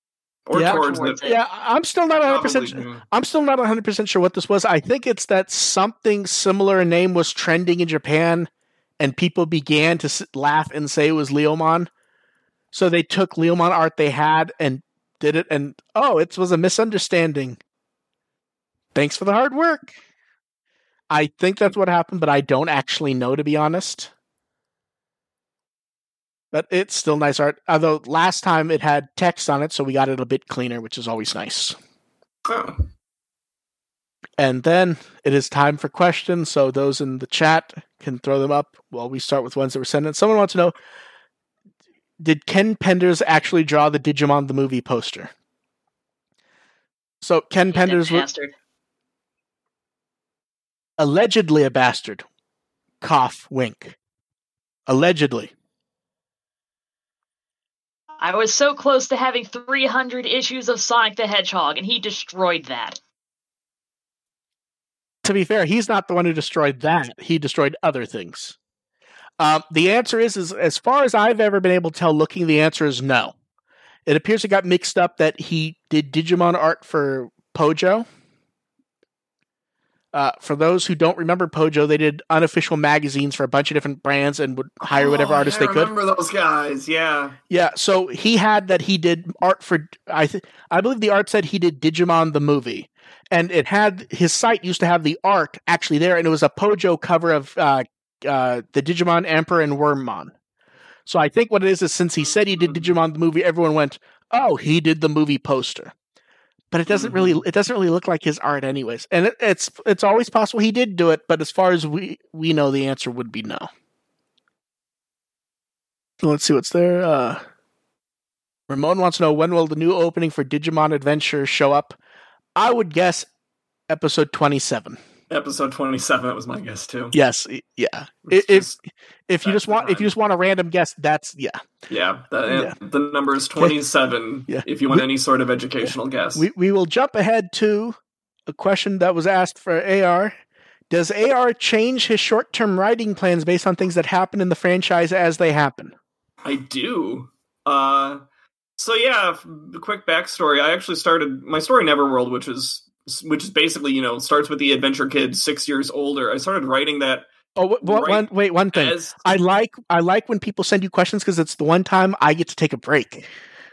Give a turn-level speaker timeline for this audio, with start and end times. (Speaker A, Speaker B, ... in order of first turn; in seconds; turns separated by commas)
Speaker A: 0.5-1.2, Speaker B: 0.5-8.5, Speaker C: 0.6-1.4, Speaker A: 2.2-3.0, Speaker B: 9.0-11.9, Speaker B: 12.7-17.6, Speaker B: 18.9-19.9, Speaker B: 21.1-24.1, Speaker B: 26.5-31.8, Speaker A: 32.5-32.8, Speaker B: 34.4-40.7, Speaker B: 42.2-45.3, Speaker B: 47.2-48.2, Speaker C: 47.7-48.5, Speaker B: 51.0-52.2, Speaker B: 53.0-54.0, Speaker B: 54.9-55.5, Speaker C: 58.2-63.0, Speaker B: 65.2-68.5, Speaker B: 69.4-73.3, Speaker B: 74.0-78.0, Speaker B: 80.1-85.9, Speaker A: 84.9-87.4, Speaker B: 87.5-100.3, Speaker B: 101.0-105.9, Speaker A: 102.5-102.9, Speaker B: 106.7-113.7, Speaker A: 106.9-107.4, Speaker B: 116.2-117.4, Speaker B: 118.7-122.0, Speaker B: 122.5-123.3, Speaker B: 123.9-125.0, Speaker A: 125.3-127.2, Speaker B: 127.1-131.6, Speaker A: 128.2-128.7, Speaker A: 129.4-130.1, Speaker A: 131.9-136.4, Speaker B: 132.5-132.7, Speaker B: 134.5-135.1, Speaker B: 135.8-138.0, Speaker B: 138.5-140.4, Speaker B: 140.9-145.9, Speaker A: 146.4-148.2, Speaker A: 148.8-157.3, Speaker B: 157.6-163.3, Speaker A: 157.8-159.2